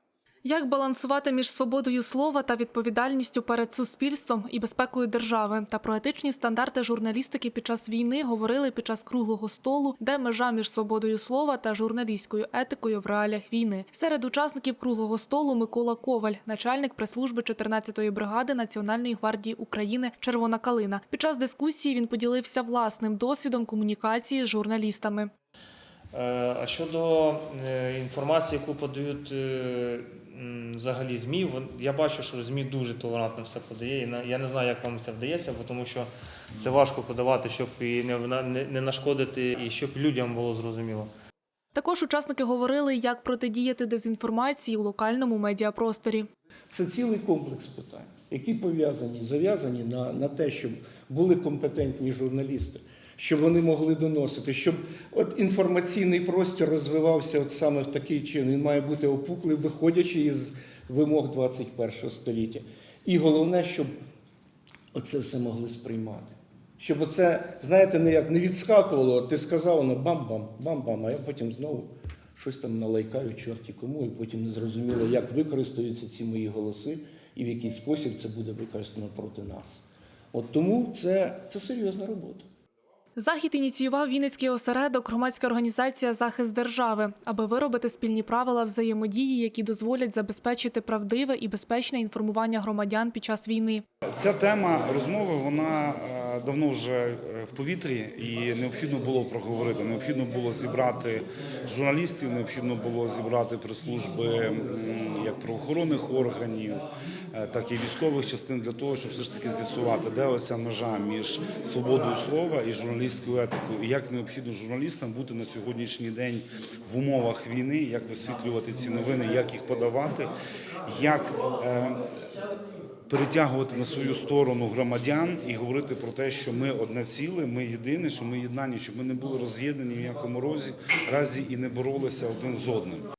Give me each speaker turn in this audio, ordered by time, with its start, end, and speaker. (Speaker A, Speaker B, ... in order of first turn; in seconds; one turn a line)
Speaker A: 0.4-25.3
Speaker B: 26.1-41.1
Speaker A: 41.7-46.3
Speaker C: 46.7-63.9
Speaker C: 64.9-79.8
Speaker C: 80.3-82.5
Speaker A: 83.2-93.8
Speaker D: 94.2-120.3
Speaker D: 120.8-122.0
Speaker D: 123.1-133.1